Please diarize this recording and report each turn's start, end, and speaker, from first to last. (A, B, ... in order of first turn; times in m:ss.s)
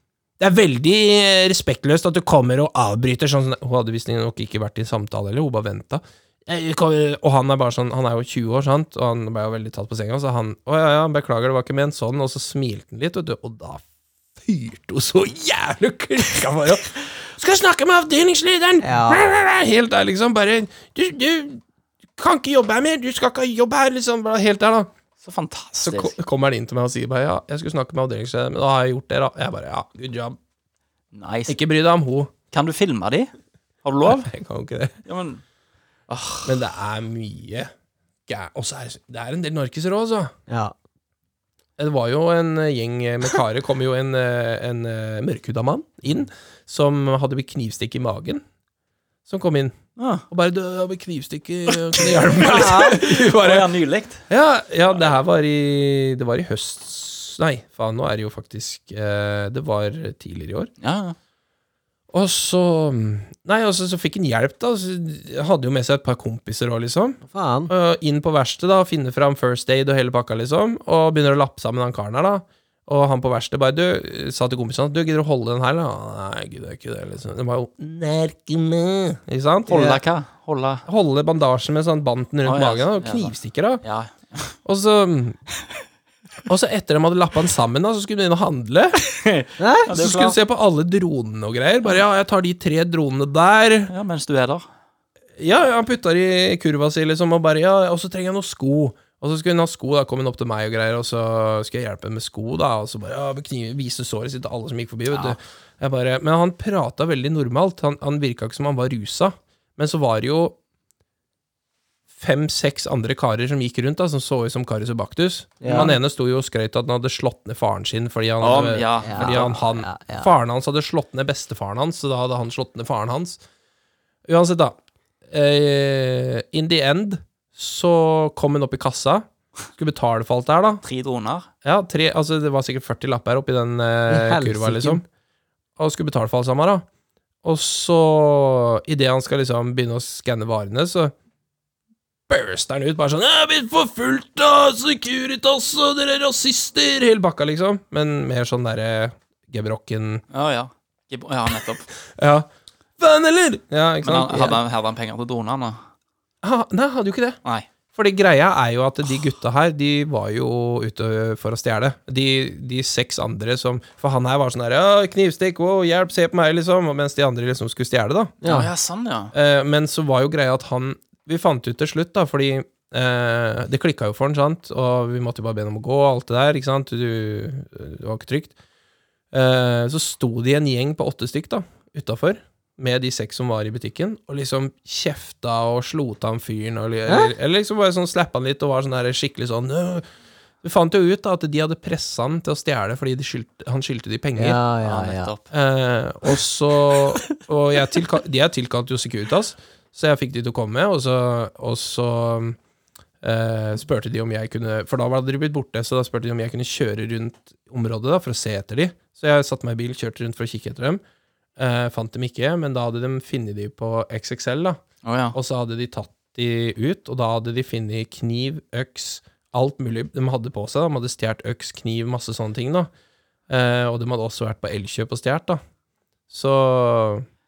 0:00.4-0:13.8 A
0:14.4-0:21.6 A
0:18.8-0:19.3 B
0:22.2-0:24.9 A
0:25.2-0:26.2 C
0:25.8-0:30.4 A
0:31.1-0:31.6 C
0:31.5-0:32.3 A
0:32.5-0:33.3 C
0:33.8-0:34.3 C
0:34.0-0:35.0 A
0:35.0-0:35.4 C
0:36.1-0:36.6 C
0:36.4-0:37.7 A
0:38.3-0:40.3 A
0:40.5-0:40.7 B
0:41.8-0:48.4 A
0:49.2-0:49.8 A
0:50.0-0:50.2 C
0:50.3-0:53.7 A
0:51.9-0:54.2 C
0:54.3-1:00.7 A
1:00.8-1:01.2 C
1:02.1-1:20.0 A
1:07.2-1:07.7 B
1:19.7-1:20.8 C
1:19.7-1:20.0 B
1:20.9-1:23.8 A
1:22.4-1:24.6 C
1:24.6-1:25.4 A
1:26.4-1:29.0 A
1:29.0-1:30.4 C
1:29.6-1:29.9 B
1:29.9-1:33.9 A
1:33.9-1:34.6 C
1:35.4-1:50.6 A
1:52.1-2:03.4 A
1:55.6-1:56.0 B
1:58.4-1:59.6 C
1:59.0-2:00.3 B
2:04.3-2:04.8 A
2:05.3-2:10.8 A
2:10.8-2:11.5 C
2:11.6-2:15.0 A
2:14.1-2:15.0 B
2:15.8-2:16.8 A
2:17.4-2:21.1 A
2:22.3-2:30.2 A
2:30.3-2:31.8 C
2:32.1-2:32.5 A
2:33.0-2:34.6 A
2:34.0-2:35.8 C
2:36.4-2:37.4 A
2:37.9-2:48.4 A
2:48.4-2:48.7 B
2:48.4-2:49.3 C
2:49.3-2:58.5 A
2:59.3-3:10.0 A
3:07.1-3:07.3 B
3:10.6-3:14.6 A
3:14.4-3:15.3 B
3:14.8-3:15.4 C
3:15.5-3:22.6 A
3:23.2-3:31.0 A
3:31.6-3:34.8 A
3:35.0-3:35.4 C
3:35.3-3:42.9 A
3:43.5-3:45.6 A
3:46.3-3:47.2 A